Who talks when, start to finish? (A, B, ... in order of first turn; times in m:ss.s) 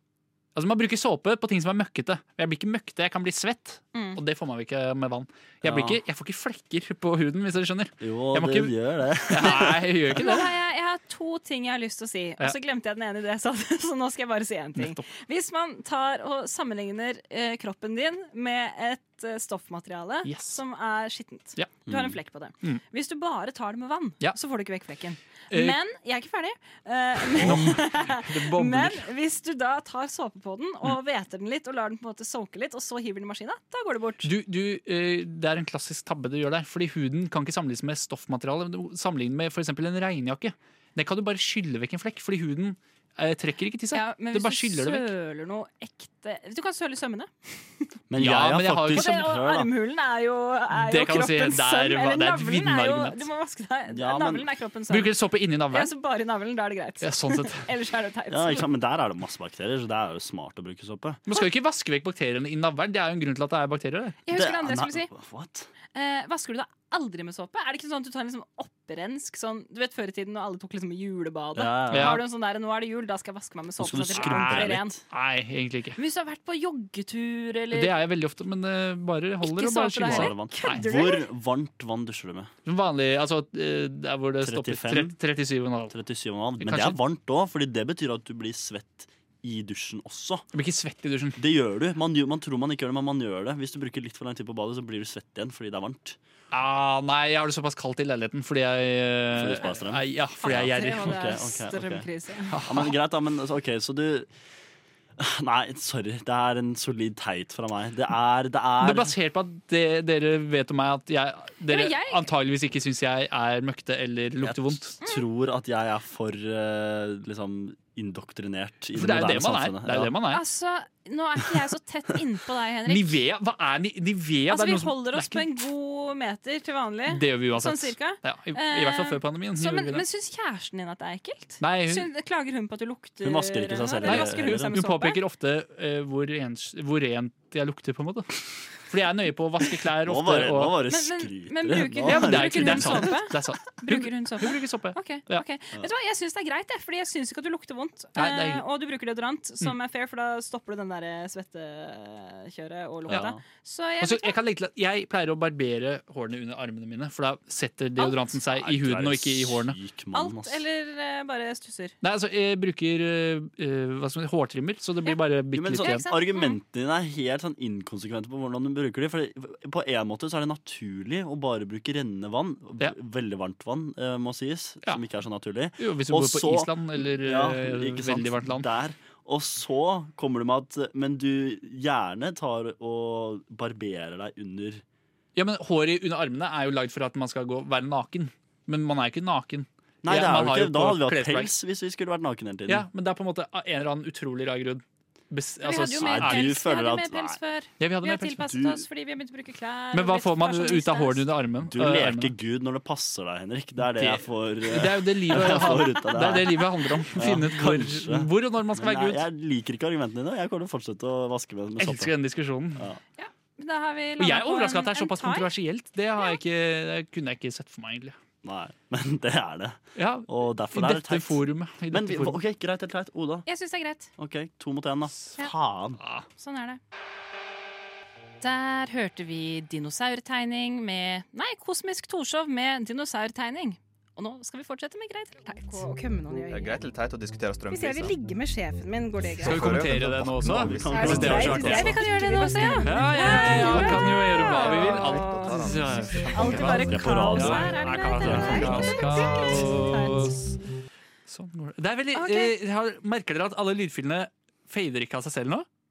0:00.6-0:08.7 A
0:03.9-0:04.2 B
0:05.6-0:06.0 C
0:08.0-0:09.8 C
0:09.3-0:10.5 A
0:10.2-0:34.3 B
0:14.8-0:15.0 A
0:20.2-0:20.6 A
0:21.9-0:22.2 C
0:25.5-0:25.8 A
0:27.2-0:29.1 A
0:27.4-0:27.7 C
0:34.2-0:45.1 A
0:43.9-0:47.9 B
0:48.1-0:49.7 C
0:48.2-0:49.3 A
0:48.9-0:55.1 B
0:50.8-0:53.3 A
0:53.9-0:54.5 C
0:54.9-0:55.9 A
0:55.7-0:58.7 B
0:57.0-0:57.7 A
0:58.3-1:01.2 C
1:01.3-1:04.2 A
1:04.2-1:05.1 B
1:04.3-1:05.7 C
1:05.9-1:15.0 B
1:11.6-1:12.2 C
1:11.9-1:12.2 A
1:13.8-1:15.0 C
1:14.2-1:16.0 A
1:16.0-1:17.9 B
1:17.7-1:20.9 A
1:19.4-1:21.3 B
1:20.0-1:22.5 C
1:22.7-1:26.0 A
1:24.4-1:25.2 C
1:25.9-1:30.5 C
1:26.6-1:27.0 A
1:30.5-1:31.4 A
1:31.4-1:36.2 C
1:36.5-1:41.2 A
1:39.3-1:42.1 C
1:40.4-1:42.6 B
1:42.5-1:43.0 A
1:42.6-1:44.3 C
1:45.2-1:49.2 C
1:48.8-1:55.0 A
1:51.7-1:52.3 B
1:54.4-2:00.1 C
1:59.0-2:00.4 A
2:00.3-2:03.2 B
2:02.9-2:05.5 A
2:04.5-2:15.2 B
2:07.1-2:10.0 A
2:11.6-2:12.1 A
2:13.2-2:14.7 C
2:14.0-2:20.8 A
2:20.0-2:23.2 C
2:20.9-2:34.4 B
2:22.0-2:25.4 A
2:28.2-2:28.6 A
2:33.1-2:33.4 C
2:34.0-2:39.8 A
2:38.0-2:38.3 B
2:38.5-2:40.6 C
2:40.1-2:42.0 B
2:42.0-2:46.0 A
2:45.5-3:04.8 C
2:45.8-2:46.6 B
2:55.8-2:58.7 A
3:05.4-3:11.5 A
3:10.0-3:12.9 C
3:12.7-3:16.6 A
3:15.6-3:21.2 B
3:16.0-3:17.4 C
3:17.8-3:18.6 A
3:18.5-3:18.8 C
3:19.9-3:22.3 A
3:21.7-3:32.1 C
3:23.9-3:29.2 A
3:31.8-3:32.9 A
3:33.2-3:35.5 B
3:34.2-3:38.2 A
3:38.4-3:43.5 C
3:40.0-3:42.4 A
3:43.5-3:44.1 B
3:44.2-3:46.0 C
3:46.0-3:46.3 A
3:46.4-3:46.8 B
3:48.4-3:55.8 B
3:55.7-3:56.8 D
3:56.5-3:58.2 E
3:57.7-3:59.8 D
3:59.4-4:02.0 E
3:59.4-4:01.9 A
4:00.4-4:01.9 C
4:00.9-4:04.0 D
4:01.6-4:05.7 B
4:02.8-4:10.6 A
4:03.5-4:06.9 E
4:06.3-4:10.4 B
4:06.9-4:09.0 C
4:08.3-4:09.3 D
4:11.3-4:15.7 A
4:12.1-4:12.5 B